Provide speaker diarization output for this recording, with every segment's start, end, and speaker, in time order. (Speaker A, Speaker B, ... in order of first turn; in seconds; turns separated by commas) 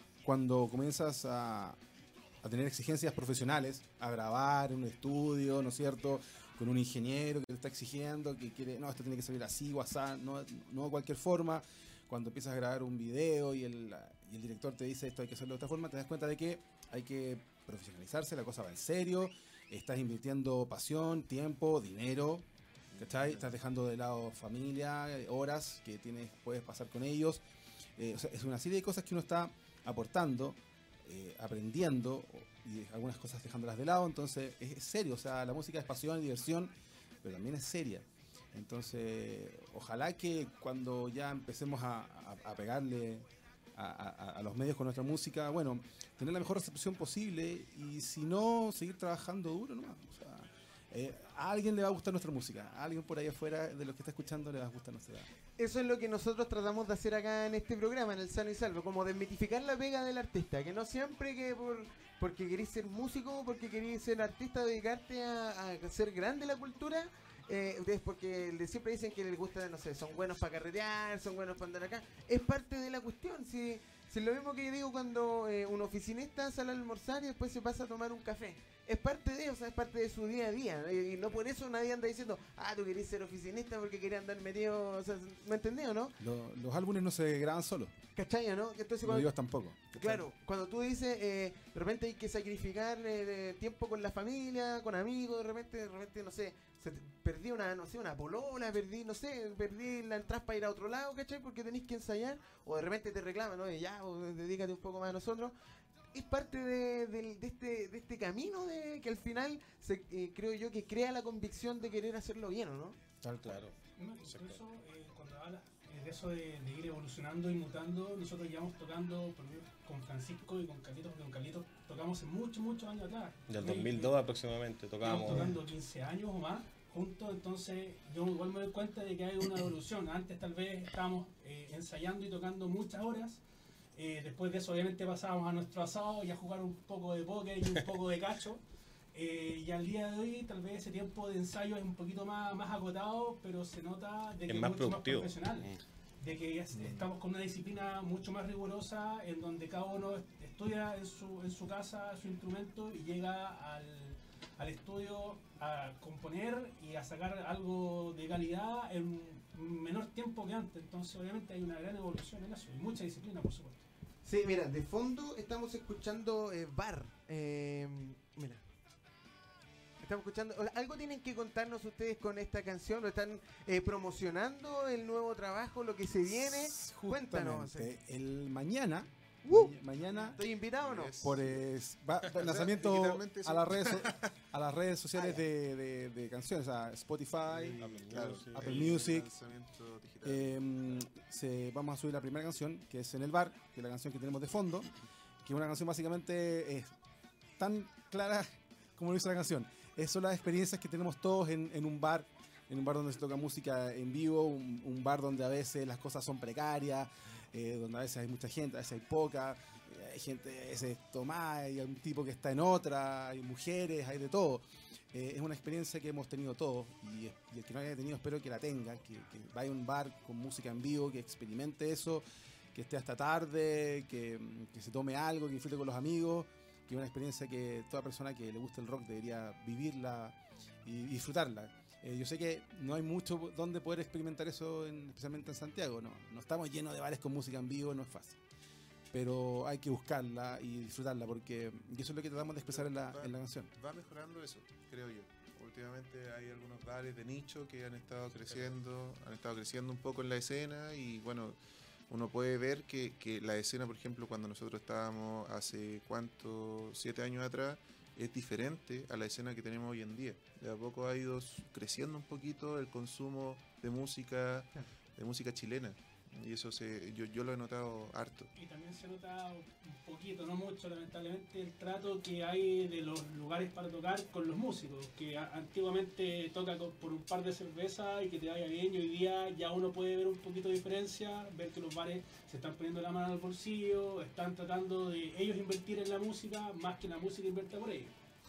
Speaker A: 0.2-1.8, Speaker A: 2.4-22.5, Speaker A: 23.0-27.4, Speaker A: 28.0-55.3, Speaker B: 55.6-86.2, Speaker A: 86.2-88.0, Speaker B: 88.2-89.3, Speaker A: 89.0-90.2, Speaker B: 89.9-105.5, Speaker B: 106.1-113.0, Speaker A: 113.2-113.7, Speaker C: 113.4-113.7, Speaker D: 114.0-124.2, Speaker C: 114.2-114.6, Speaker C: 123.5-125.6, Speaker D: 125.0-133.4, Speaker D: 134.0-138.6, Speaker D: 139.1-163.8, Speaker C: 144.5-145.8, Speaker B: 164.2-168.6, Speaker B: 170.0-178.0, Speaker A: 176.3-180.4, Speaker B: 179.4-179.8, Speaker B: 180.3-181.3, Speaker E: 180.8-181.7, Speaker A: 181.2-187.8, Speaker E: 182.2-184.3, Speaker B: 185.2-185.4, Speaker E: 187.5-191.0, Speaker C: 187.8-189.0, Speaker A: 188.5-189.3, Speaker A: 190.2-194.9, Speaker A: 195.4-196.9, Speaker A: 197.6-238.4, Speaker A: 239.1-243.7, Speaker E: 242.6-251.6, Speaker C: 248.3-248.8, Speaker E: 252.1-268.5, Speaker D: 268.6-288.1